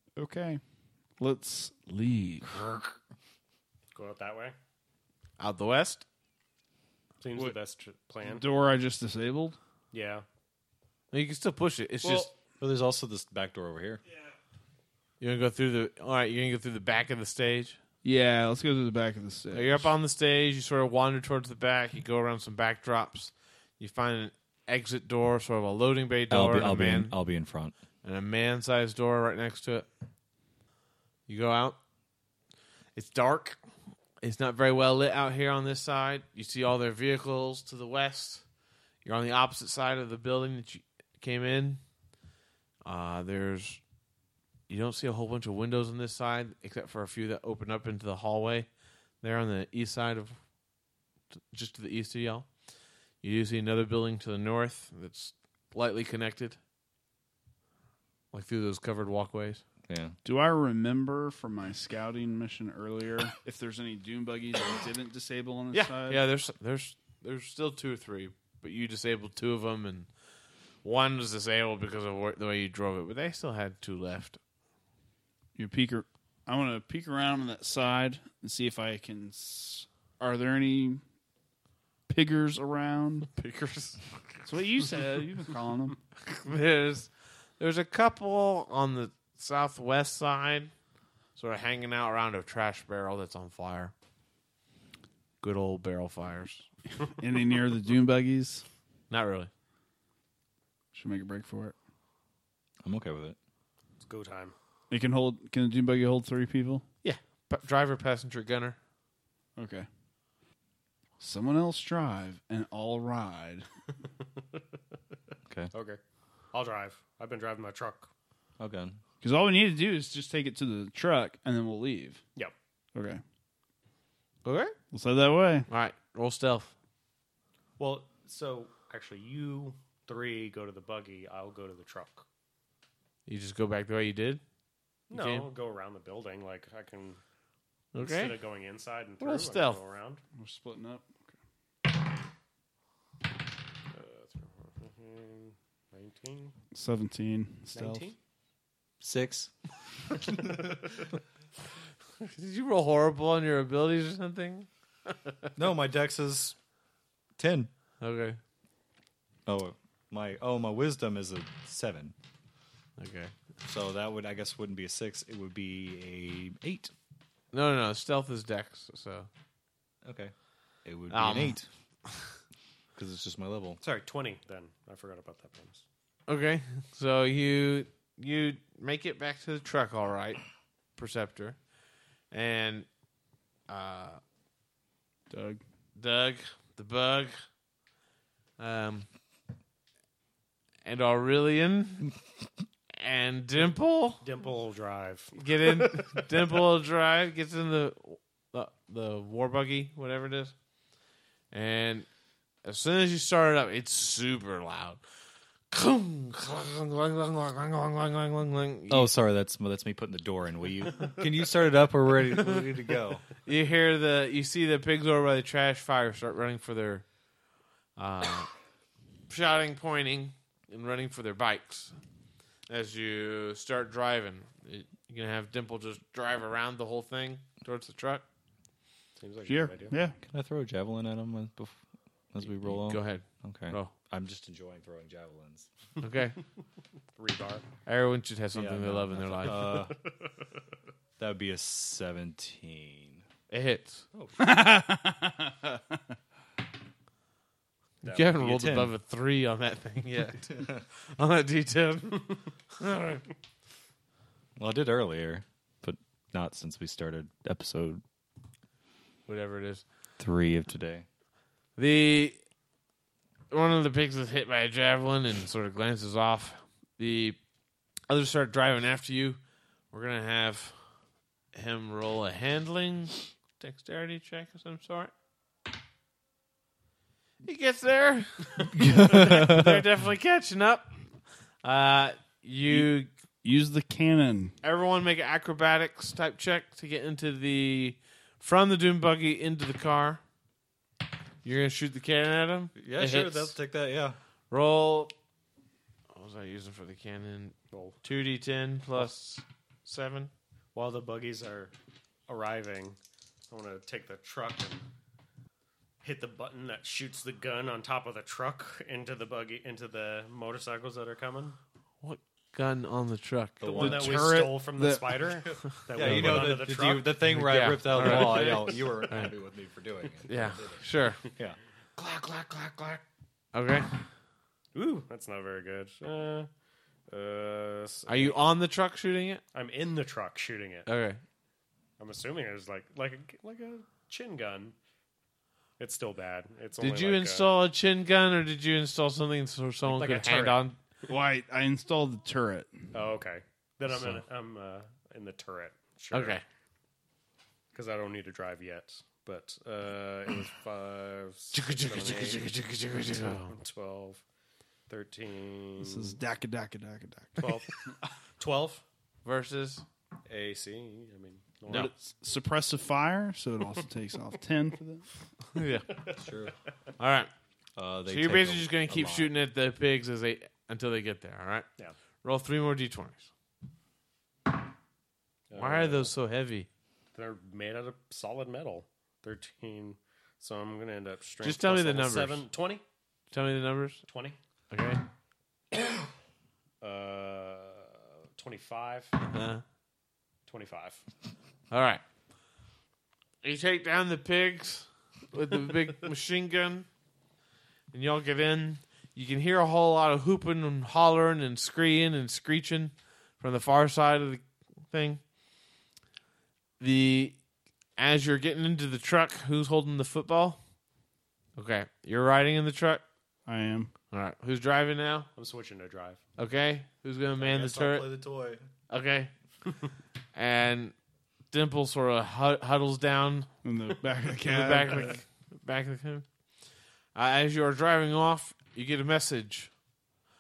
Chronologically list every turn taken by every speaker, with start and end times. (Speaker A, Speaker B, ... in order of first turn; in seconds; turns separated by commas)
Speaker A: 0.2-0.6, Speaker A: 1.2-2.6, Speaker B: 3.9-4.5, Speaker C: 5.4-6.0, Speaker B: 7.2-8.4, Speaker A: 8.2-9.6, Speaker B: 9.9-10.2, Speaker C: 11.1-12.3, Speaker D: 12.6-14.0, Speaker C: 15.2-17.8, Speaker A: 18.0-19.9, Speaker C: 19.5-27.1, Speaker D: 26.3-27.7, Speaker C: 28.0-29.9, Speaker C: 31.3-31.8, Speaker C: 32.9-33.6, Speaker C: 34.2-38.4, Speaker C: 39.0-41.8, Speaker C: 42.8-43.8, Speaker C: 44.7-48.7, Speaker C: 49.2-50.4, Speaker C: 51.5-52.5, Speaker C: 53.2-56.6, Speaker C: 58.3-59.6, Speaker D: 59.9-60.2, Speaker A: 60.2-66.2, Speaker C: 65.7-70.1, Speaker C: 70.8-74.4, Speaker A: 75.5-81.0, Speaker A: 82.1-83.3, Speaker C: 83.3-84.4, Speaker A: 84.4-86.0, Speaker C: 86.2-90.7, Speaker C: 91.3-93.9, Speaker C: 95.4-96.7, Speaker A: 97.2-98.6, Speaker C: 99.1-99.5, Speaker A: 100.9-101.7, Speaker D: 102.8-103.4, Speaker B: 104.0-104.5, Speaker A: 104.9-106.8, Speaker C: 107.0-108.8, Speaker A: 109.6-109.9, Speaker A: 111.2-113.6, Speaker B: 115.7-116.0, Speaker B: 116.5-118.1, Speaker D: 118.6-119.0, Speaker A: 119.2-122.2, Speaker A: 122.9-123.2, Speaker C: 124.4-124.8, Speaker A: 124.9-125.7, Speaker C: 125.7-126.7, Speaker B: 127.8-132.2, Speaker C: 133.2-134.4, Speaker B: 135.1-137.2, Speaker C: 135.1-135.5, Speaker C: 137.9-138.3, Speaker B: 138.0-140.2, Speaker C: 139.2-139.8, Speaker A: 140.4-141.1, Speaker B: 143.9-146.5, Speaker A: 146.7-148.1, Speaker B: 147.7-148.2, Speaker D: 149.0-149.5, Speaker D: 150.1-150.7, Speaker C: 152.2-155.5, Speaker D: 155.6-156.6, Speaker D: 157.4-157.7, Speaker C: 158.0-158.4, Speaker D: 159.4-162.1, Speaker C: 163.0-163.3, Speaker D: 163.6-166.9, Speaker C: 167.5-169.3, Speaker D: 170.0-171.7, Speaker C: 171.1-171.6, Speaker D: 172.9-173.8, Speaker B: 173.8-175.8, Speaker C: 176.3-180.4, Speaker C: 180.9-181.6, Speaker C: 182.3-182.9, Speaker C: 183.7-184.2, Speaker A: 185.3-185.6, Speaker C: 185.9-187.3, Speaker C: 188.6-189.1, Speaker C: 190.8-192.1, Speaker C: 193.0-194.2, Speaker B: 194.2-196.2, Speaker C: 195.4-200.5, Speaker C: 201.5-202.1, Speaker C: 202.6-205.0, Speaker C: 205.7-209.1, Speaker D: 208.9-213.2, Speaker C: 213.4-217.0, Speaker C: 218.0-218.5, Speaker C: 219.3-221.9, Speaker C: 222.7-228.2, Speaker B: 229.2-229.9, Speaker A: 229.4-230.2, Speaker D: 230.2-231.8, Speaker D: 232.3-235.7, Speaker C: 232.7-233.9, Speaker C: 236.0-236.4, Speaker B: 237.2-237.6, Speaker C: 237.8-239.7, Speaker D: 238.5-239.9, Speaker B: 239.5-239.9, Speaker D: 241.2-243.2, Speaker C: 243.5-244.0, Speaker D: 244.1-244.4, Speaker A: 244.4-245.8, Speaker C: 248.0-253.2, Speaker D: 248.1-248.9, Speaker D: 250.4-250.8, Speaker D: 254.6-258.0, Speaker C: 259.3-259.8, Speaker D: 260.2-261.1, Speaker C: 261.8-262.4, Speaker C: 263.5-267.4, Speaker C: 268.1-269.4, Speaker C: 269.9-270.8, Speaker C: 271.5-275.1, Speaker C: 277.4-281.0, Speaker D: 278.8-279.8, Speaker C: 281.6-283.1, Speaker A: 283.4-284.5, Speaker C: 284.6-290.2, Speaker C: 291.4-293.6, Speaker D: 292.8-294.2, Speaker C: 294.5-295.1, Speaker C: 296.1-300.3, Speaker B: 297.7-298.0, Speaker B: 300.7-301.7, Speaker B: 302.3-303.0, Speaker B: 303.5-304.8, Speaker B: 306.0-311.6, Speaker C: 312.0-313.9, Speaker B: 313.6-317.2, Speaker A: 313.7-315.6, Speaker D: 313.7-314.1, Speaker D: 315.9-321.6, Speaker C: 317.3-319.3, Speaker B: 317.8-319.1, Speaker C: 320.3-321.2, Speaker B: 322.0-323.0, Speaker C: 323.5-324.0, Speaker B: 324.7-326.5, Speaker B: 327.1-328.4, Speaker C: 328.1-329.4, Speaker B: 329.5-330.9, Speaker C: 330.9-331.2, Speaker B: 332.0-334.7, Speaker B: 335.8-337.5, Speaker C: 336.8-340.8, Speaker B: 339.8-340.6, Speaker A: 341.1-342.7, Speaker B: 342.9-346.4, Speaker C: 346.1-346.4, Speaker B: 347.7-352.5, Speaker C: 351.5-353.6, Speaker B: 353.2-354.2, Speaker B: 354.9-356.1, Speaker A: 355.8-357.6, Speaker B: 357.4-357.8, Speaker B: 358.4-358.8, Speaker C: 359.2-359.8, Speaker B: 360.2-361.9, Speaker A: 361.7-365.1, Speaker C: 365.5-366.0, Speaker D: 366.1-366.6, Speaker C: 367.0-367.3, Speaker D: 367.8-369.3, Speaker C: 368.1-371.6, Speaker C: 372.2-373.3, Speaker B: 375.5-376.1, Speaker C: 375.5-376.7, Speaker B: 377.1-382.8, Speaker C: 381.4-382.5, Speaker C: 383.3-384.0, Speaker B: 384.1-384.4, Speaker C: 384.7-385.0, Speaker B: 386.8-389.1, Speaker C: 389.3-389.6, Speaker B: 390.5-391.0, Speaker C: 391.7-392.0, Speaker C: 393.4-396.9, Speaker C: 397.9-405.2, Speaker C: 406.8-407.4, Speaker C: 408.0-410.6, Speaker C: 411.6-413.0, Speaker A: 413.4-413.9, Speaker C: 414.1-415.3, Speaker B: 415.4-416.2, Speaker C: 416.4-418.1, Speaker D: 417.4-418.7, Speaker C: 418.9-419.3, Speaker C: 420.3-420.9, Speaker C: 421.5-423.5, Speaker A: 423.6-425.2, Speaker C: 424.4-426.2, Speaker C: 427.1-429.7